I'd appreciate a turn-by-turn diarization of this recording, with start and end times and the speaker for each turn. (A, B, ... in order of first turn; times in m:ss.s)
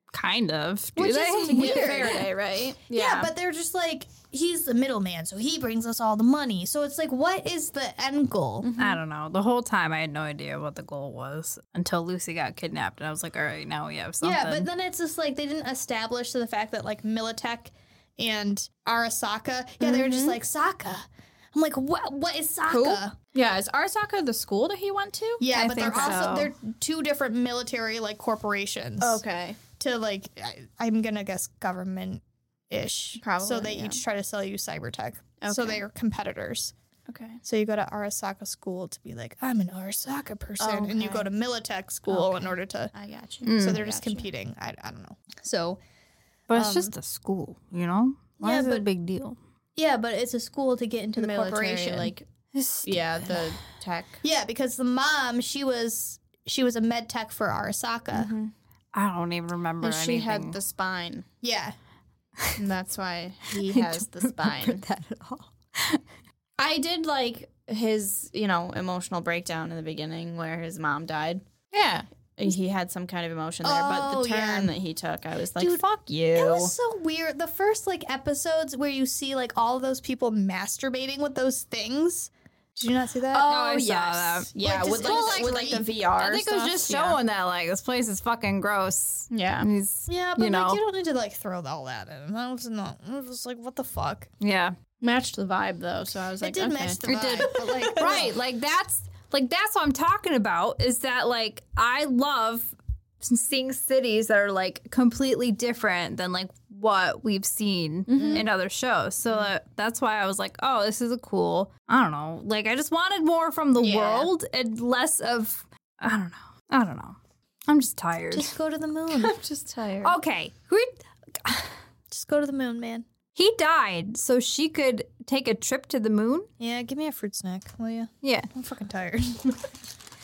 0:00.1-0:02.2 A
0:01.0-0:02.2 B
0:01.5-0:03.3 C
0:02.9-0:08.7 B
0:08.6-0:09.0 C
0:08.8-0:14.7 A
0:14.2-0:23.1 B
0:19.8-0:20.4 C
0:22.6-0:26.5 C
0:25.4-0:29.2 B
0:25.5-0:26.5 A
0:29.0-0:29.6 C
0:29.8-0:36.7 B
0:33.2-0:34.0 C
0:35.4-0:35.8 C
0:37.1-0:37.4 C
0:37.4-0:42.9 B
0:40.6-0:41.3 C
0:42.1-0:44.3 C
0:43.4-0:43.8 A
0:43.6-0:45.8 B
0:46.5-0:49.4 A
0:46.6-0:46.9 B
0:48.4-0:48.8 B
0:49.8-0:52.1 B
0:51.2-0:52.3 C
0:52.5-0:53.4 A
0:52.8-0:54.2 C
0:54.2-0:58.3 B
0:58.1-0:58.5 C
0:58.9-1:00.6 A
0:59.8-1:01.2 C
1:01.4-1:01.7 B
1:02.6-1:04.8 C
1:03.5-1:06.0 A
1:06.6-1:16.7 C
1:13.6-1:14.7 B
1:16.4-1:23.5 B
1:23.3-1:27.2 C
1:23.4-1:30.8 A
1:24.6-1:25.8 B
1:29.3-1:29.7 C
1:30.1-1:34.3 B
1:34.4-1:34.7 A
1:35.0-1:38.3 C
1:36.4-1:38.3 B
1:37.1-1:57.2 A
1:48.1-1:48.4 C
1:48.1-1:48.4 B
1:53.8-1:54.3 C
1:57.7-1:58.5 A
1:58.3-1:59.4 B
1:59.1-2:00.2 C
2:00.0-2:01.7 A
2:02.1-2:03.0 B
2:03.4-2:06.5 A
2:06.6-2:09.6 B
2:08.2-2:08.5 A